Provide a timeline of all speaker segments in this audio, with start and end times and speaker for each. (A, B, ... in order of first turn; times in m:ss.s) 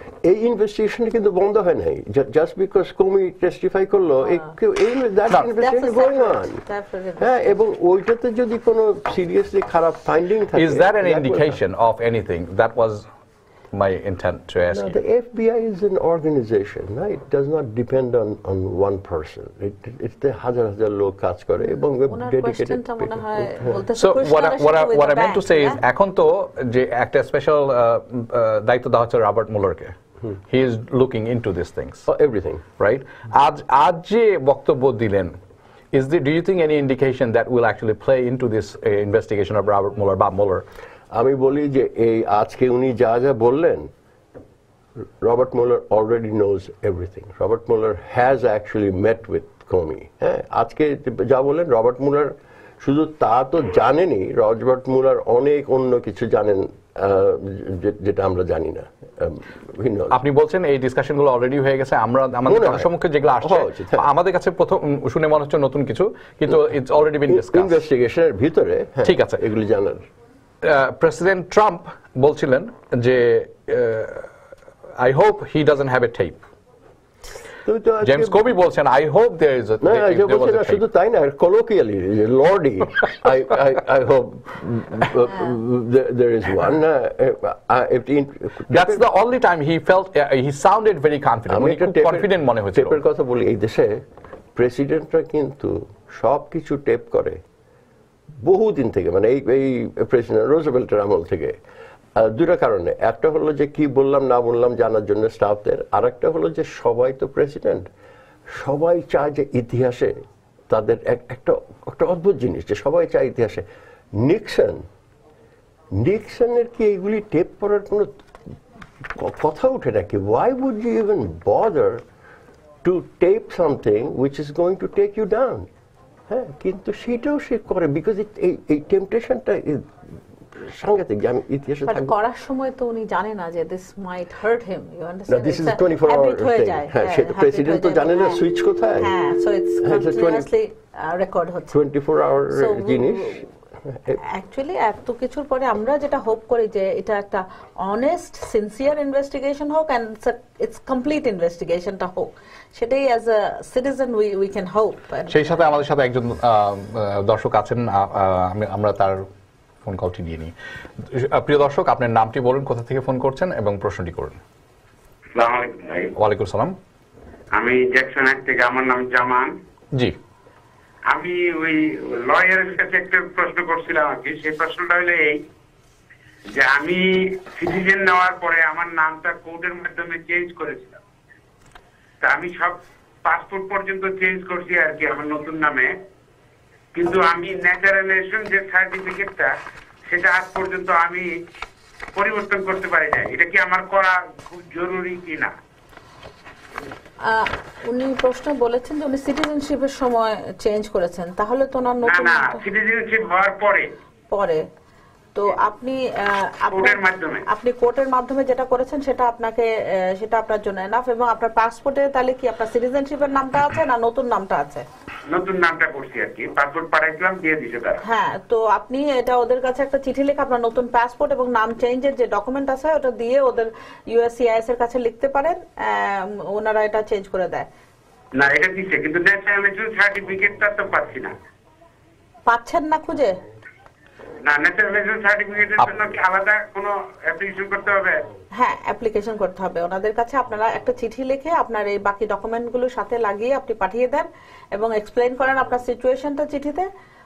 0:00.2-0:06.6 A
0:05.5-0:07.5 B
0:07.2-0:11.6 A
0:10.6-0:13.0 C
0:13.7-0:15.0 C
0:14.7-0:23.7 A
0:22.1-0:25.8 B
0:24.0-0:29.9 C
0:30.5-0:32.1 C
0:32.1-0:32.6 A
0:32.8-0:35.4 C
0:35.9-0:40.6 C
0:41.1-0:43.9 A
0:45.2-1:00.2 A
1:00.1-1:07.8 C
1:02.5-1:04.1 A
1:07.3-1:10.0 A
1:09.0-1:09.4 C
1:10.6-1:14.3 C
1:15.0-1:16.4 C
1:17.6-1:18.4 A
1:18.0-1:20.8 C
1:19.8-1:29.0 A
1:28.7-1:33.0 C
1:31.5-1:34.0 A
1:34.6-1:37.4 A
1:38.4-1:41.6 A
1:42.2-1:47.9 A
1:48.5-1:50.1 A
1:50.7-1:53.6 A
1:54.2-1:54.8 A
1:55.9-1:58.1 A
1:59.0-2:02.0 A
2:02.8-2:05.7 A
2:06.3-2:09.9 A
2:10.6-2:12.2 A
2:11.9-2:18.4 B
2:15.3-2:19.1 A
2:19.0-2:21.8 B
2:19.8-2:20.5 A
2:21.7-2:24.2 A
2:22.5-2:23.4 B
2:24.2-2:35.7 B
2:35.3-2:39.2 C
2:39.8-2:40.5 C
2:41.1-2:44.4 C
2:45.4-2:46.1 D
2:46.2-2:46.8 C
2:47.5-2:49.5 D
2:51.1-2:55.4 D
2:56.5-3:01.0 D
3:02.2-3:05.9 D
3:07.0-3:09.5 D
3:10.1-3:11.3 D
3:12.2-3:15.5 D
3:17.2-3:22.6 B
3:22.0-3:23.9 D
3:24.3-3:24.6 B
3:25.4-3:34.9 B
3:26.7-3:27.4 D
3:35.3-3:38.0 D
3:38.0-3:47.7 B
3:48.4-3:51.4 D
3:52.5-3:53.4 B
3:54.4-3:58.2 D
3:58.6-4:06.9 B